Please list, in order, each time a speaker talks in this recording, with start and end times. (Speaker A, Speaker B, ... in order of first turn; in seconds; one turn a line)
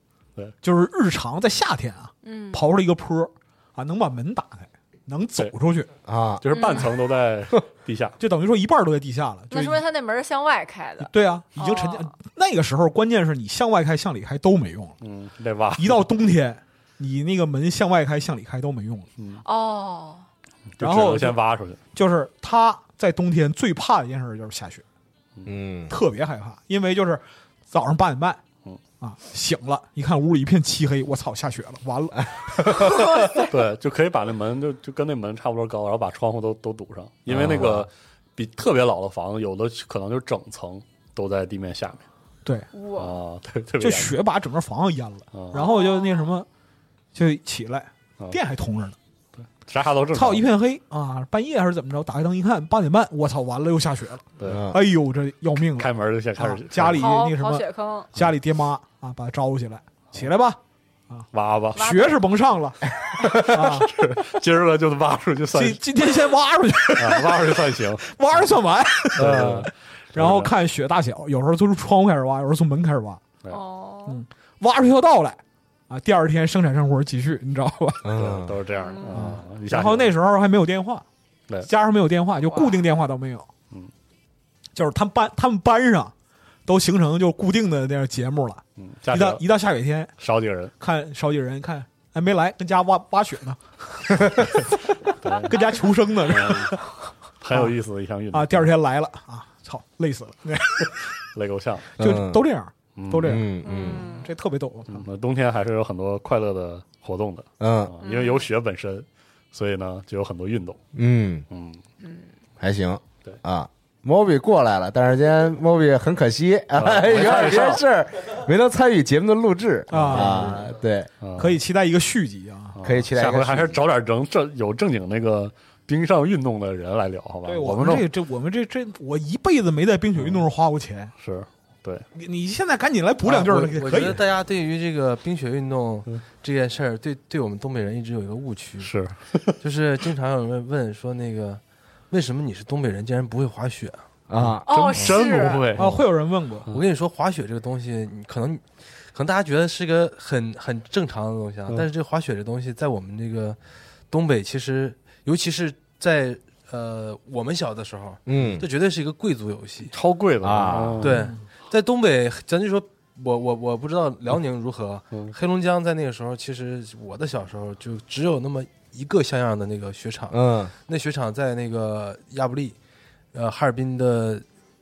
Speaker A: 0.6-5.9
Speaker B: 2.2-2.6
Speaker C: 6.0-6.4
Speaker D: 6.4-8.2
Speaker B: 6.5-6.9
Speaker A: 8.2-9.8
Speaker B: 9.5-12.1
Speaker A: 11.0-14.9
Speaker D: 15.0-16.1
Speaker A: 15.8-19.1
Speaker D: 19.2-19.4
Speaker B: 19.4-20.2
Speaker D: 20.8-21.8
Speaker A: 20.8-21.4
Speaker A: 21.9-24.8
Speaker C: 25.4-25.9
Speaker A: 25.9-28.4
Speaker A: 29.0-33.0
Speaker C: 32.6-33.0
Speaker D: 33.4-42.0
Speaker C: 37.3-37.9
Speaker B: 42.7-43.2
Speaker D: 43.0-44.1
Speaker A: 43.8-46.5
Speaker D: 45.3-45.6
Speaker B: 45.5-46.3
Speaker A: 47.1-49.0
Speaker D: 49.6-50.5
Speaker A: 50.1-60.6
Speaker D: 54.4-54.6
Speaker C: 54.5-54.8
Speaker D: 55.7-57.1
Speaker B: 56.9-58.1
Speaker A: 61.1-63.9
Speaker D: 61.3-61.8
Speaker B: 61.7-62.2
Speaker C: 63.1-63.8
Speaker D: 63.6-65.8
Speaker A: 65.5-73.2
Speaker D: 67.0-68.0
Speaker D: 69.2-70.5
Speaker B: 73.5-74.2
Speaker A: 74.1-78.1
Speaker C: 78.0-78.6
Speaker D: 78.1-80.2
Speaker B: 78.8-79.3
Speaker A: 79.1-81.0
Speaker A: 81.7-83.5
Speaker B: 82.5-82.8
Speaker A: 84.7-86.1
Speaker A: 86.7-90.1
Speaker D: 88.8-89.4
Speaker D: 90.2-90.7
Speaker A: 90.8-94.9
Speaker D: 95.2-96.8
Speaker A: 95.5-96.9
Speaker D: 97.4-98.7
Speaker A: 98.3-101.0
Speaker D: 101.3-101.9
Speaker C: 102.0-102.5
Speaker A: 102.0-105.0
Speaker D: 103.0-103.4
Speaker C: 103.2-104.0
Speaker B: 103.6-104.3
Speaker D: 104.9-110.8
Speaker C: 107.6-107.9
Speaker B: 108.0-108.5
Speaker C: 110.9-111.4
Speaker D: 111.5-111.8
Speaker B: 112.0-112.3
Speaker C: 112.6-121.1
Speaker D: 116.7-117.8
Speaker A: 119.9-120.6
Speaker D: 120.0-120.5
Speaker D: 121.2-121.6
Speaker A: 121.4-122.8
Speaker D: 122.7-128.1
Speaker C: 122.8-123.8
Speaker A: 127.5-131.1
Speaker D: 130.2-130.5
Speaker D: 131.2-132.0
Speaker A: 132.1-134.2
Speaker E: 133.2-138.9
Speaker D: 138.8-139.5
Speaker E: 139.6-144.0
Speaker C: 144.3-145.1
Speaker D: 144.4-146.0
Speaker B: 144.7-145.7
Speaker A: 145.8-146.7
Speaker E: 146.7-153.6
Speaker E: 154.1-159.9
Speaker C: 158.2-158.6
Speaker D: 159.9-161.3
Speaker C: 160.4-161.1
Speaker E: 161.0-172.8
Speaker C: 170.3-170.7
Speaker E: 173.3-174.4